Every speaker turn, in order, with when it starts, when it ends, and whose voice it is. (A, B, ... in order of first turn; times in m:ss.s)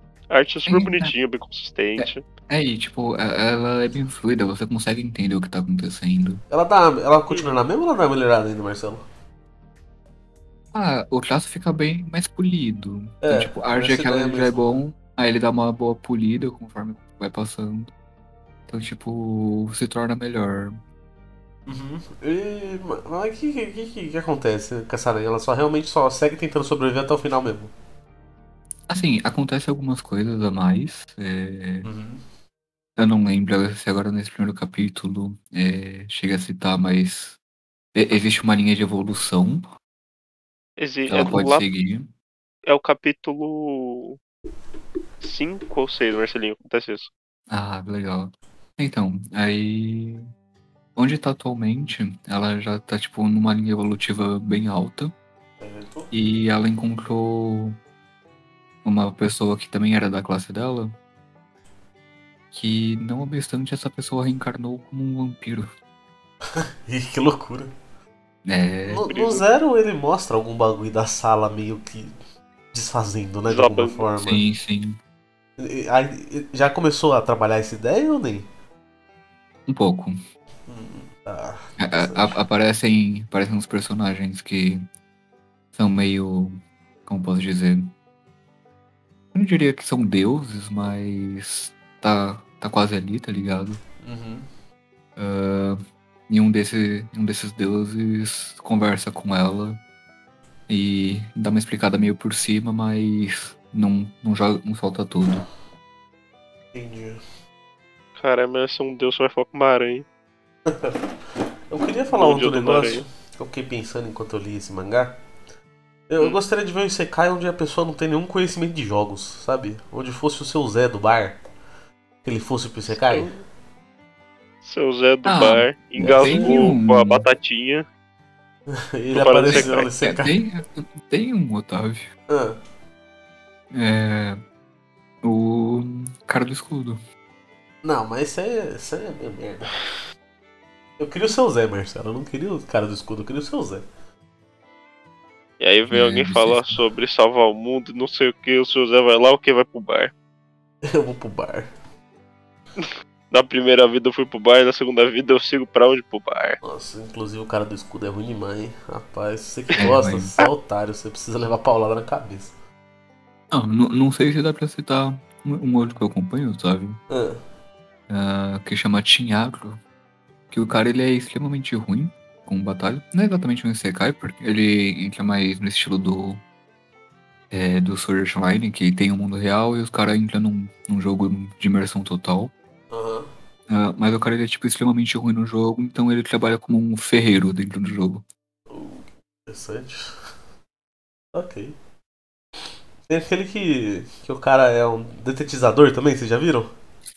0:00.3-0:02.2 A
0:00.6-0:01.1 B
0:02.0-0:06.4 B
0:06.5-0:09.0 C
0:10.7-0:17.9 B
0:13.2-0:14.6 C
0:18.7-0:20.8 B
0:21.7-0:27.7 C
0:28.9-0:31.9 B
0:31.8-0:32.2 C
0:33.0-0:37.4 B
0:37.9-0:39.6 B
0:40.8-0:41.6 A
0:41.1-0:42.1 B
0:42.7-0:44.2 A
0:45.2-0:47.1 A
0:47.5-0:50.2 B
0:51.0-0:55.1 B
0:55.6-0:56.1 C
0:56.1-0:57.8 B
0:58.8-1:01.0 B
1:02.5-1:05.7 B
1:06.6-1:07.7 C
1:08.4-1:09.0 B
1:08.9-1:12.1 C
1:09.1-1:09.4 A
1:12.7-1:14.4 C
1:13.5-1:14.0 A
1:14.2-1:15.0 B
1:15.6-1:18.5 C
1:19.7-1:20.2 B
1:20.7-1:22.4 C
1:21.8-1:24.8 B
1:25.7-1:27.9 B
1:29.3-1:33.8 B
1:34.0-1:34.5 C
1:35.2-1:39.8 B
1:40.7-1:45.4 B
1:46.7-1:47.2 C
1:48.2-1:50.0 A
1:50.7-1:51.0 C
1:51.7-1:55.2 C
1:52.1-1:53.0 A
1:56.1-2:01.4 C
2:02.2-2:03.4 C
2:03.1-2:03.4 A
2:04.6-2:07.8 A
2:05.2-2:07.2 B
2:06.0-2:06.7 C
2:08.8-2:10.4 C
2:09.1-2:09.9 A
2:09.5-2:12.1 B
2:12.3-2:12.6 C
2:13.7-2:14.4 B
2:15.2-2:17.0 B
2:17.8-2:19.8 C
2:21.0-2:23.8 C
2:25.6-2:30.1 A
2:25.9-2:26.8 B
2:30.9-2:31.7 C
2:32.8-2:36.6 A
2:36.6-2:42.5 C
2:39.8-2:40.3 B
2:43.5-2:47.0 B
2:47.1-2:47.4 C
2:48.1-2:49.8 B
2:50.5-2:56.4 B
2:57.5-3:02.5 B
3:02.9-3:03.3 C
3:03.7-3:08.2 B
3:08.7-3:10.1 C
3:11.3-3:11.8 C
3:13.1-3:16.7 C